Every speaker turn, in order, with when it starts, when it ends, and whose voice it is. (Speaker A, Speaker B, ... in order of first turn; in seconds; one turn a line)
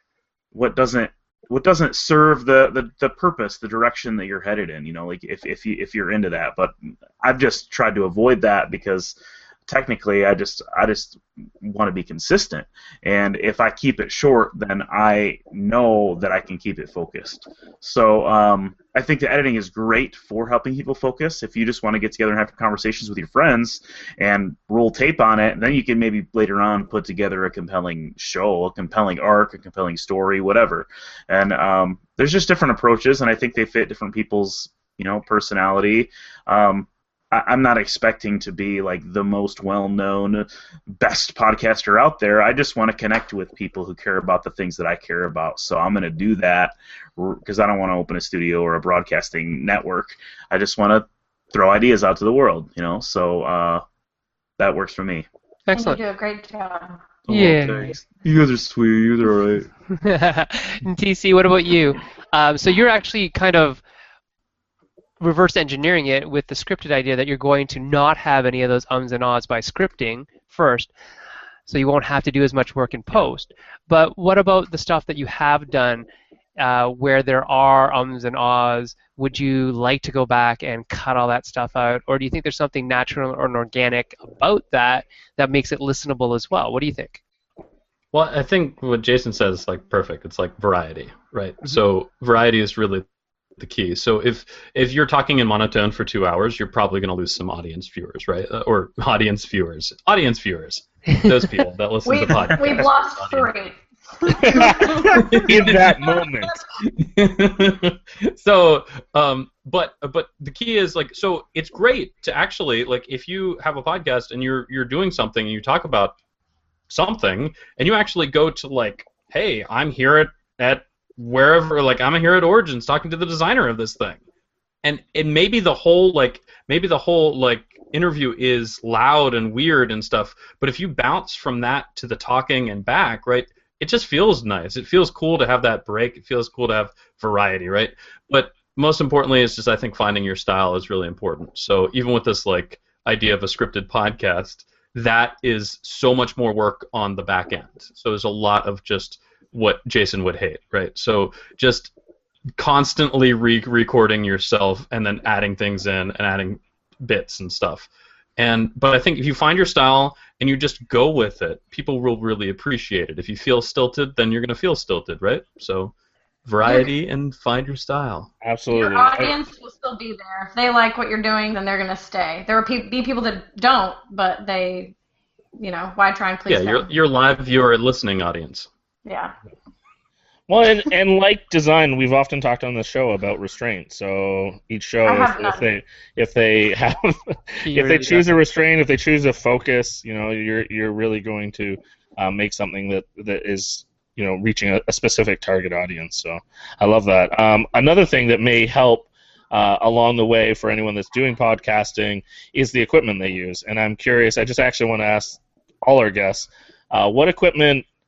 Speaker A: 0.5-53.8
Speaker A: 54.6-55.3
Speaker B: 55.7-56.0
Speaker C: 55.7-57.0
Speaker A: 57.3-59.7
Speaker B: 57.3-58.0
Speaker B: 60.0-63.8
Speaker B: 65.2-70.9
Speaker B: 71.7-76.1
Speaker B: 76.6-87.2
Speaker D: 88.1-93.0
Speaker D: 93.6-103.5
Speaker C: 102.0-105.3
Speaker E: 104.4-106.5
Speaker D: 104.4-106.3
Speaker D: 106.8-116.1
Speaker D: 116.9-124.2
Speaker D: 124.8-151.9
Speaker D: 152.6-165.9
Speaker D: 166.4-168.3
Speaker E: 168.4-169.3
Speaker C: 168.7-174.9
Speaker C: 175.6-176.9
Speaker D: 176.5-178.7
Speaker C: 179.0-179.3
Speaker E: 180.5-207.8
Speaker C: 185.0-185.7
Speaker B: 187.6-188.4